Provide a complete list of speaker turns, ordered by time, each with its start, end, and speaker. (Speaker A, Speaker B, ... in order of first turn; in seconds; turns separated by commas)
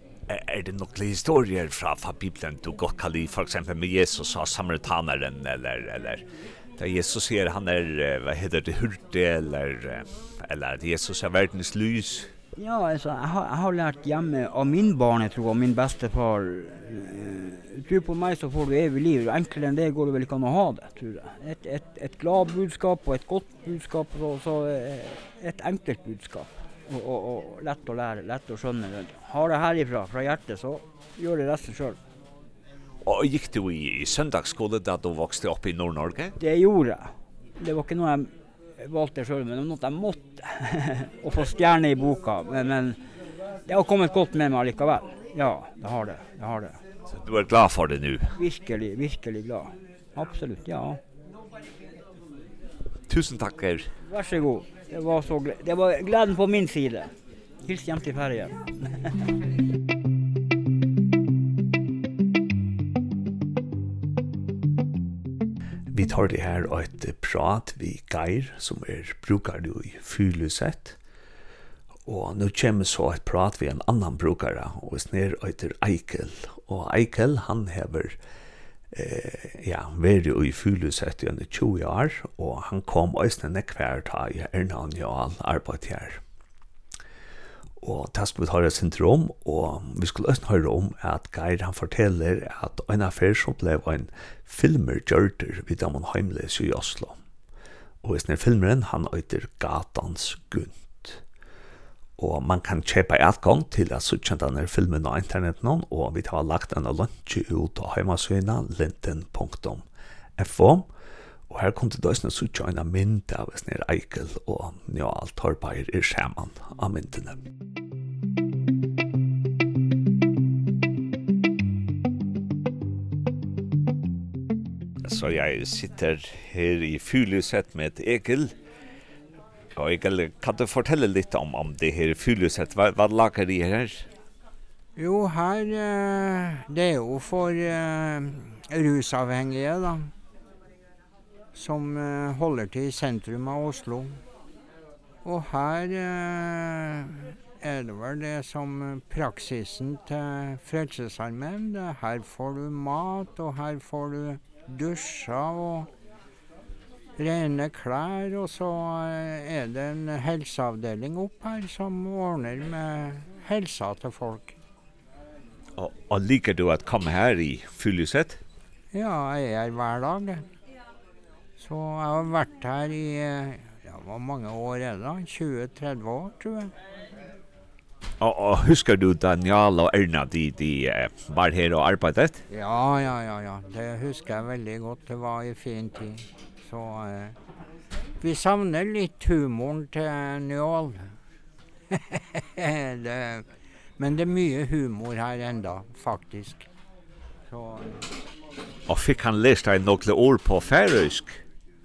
Speaker A: 0.3-6.2, Speaker A: 6.8-12.3, Speaker B: 12.6-32.0, Speaker A: 33.0-36.3, Speaker B: 36.4-43.0, Speaker B: 43.6-46.8, Speaker A: 47.1-48.3, Speaker B: 48.4-51.0, Speaker A: 53.1-53.9, Speaker B: 54.0-57.1, Speaker B: 57.6-59.2, Speaker A: 65.9-71.0, Speaker A: 72.1-78.2, Speaker A: 78.9-86.2, Speaker A: 87.8-97.2, Speaker A: 98.0-101.2, Speaker A: 102.2-109.8, Speaker A: 110.4-110.9, Speaker A: 111.5-117.4, Speaker A: 125.0-128.5, Speaker A: 129.8-134.1, Speaker C: 134.9-140.1, Speaker C: 141.5-144.2, Speaker C: 145.2-155.9, Speaker C: 157.2-164.6, Speaker A: 165.8-168.4, Speaker C: 168.9-170.4, Speaker C: 171.6-176.7, Speaker A: 178.2-182.4, Speaker C: 182.5-187.3, Speaker C: 188.2-191.0, Speaker C: 191.9-193.4, Speaker C: 194.0-196.7, Speaker C: 197.5-198.0, Speaker A: 198.9-201.4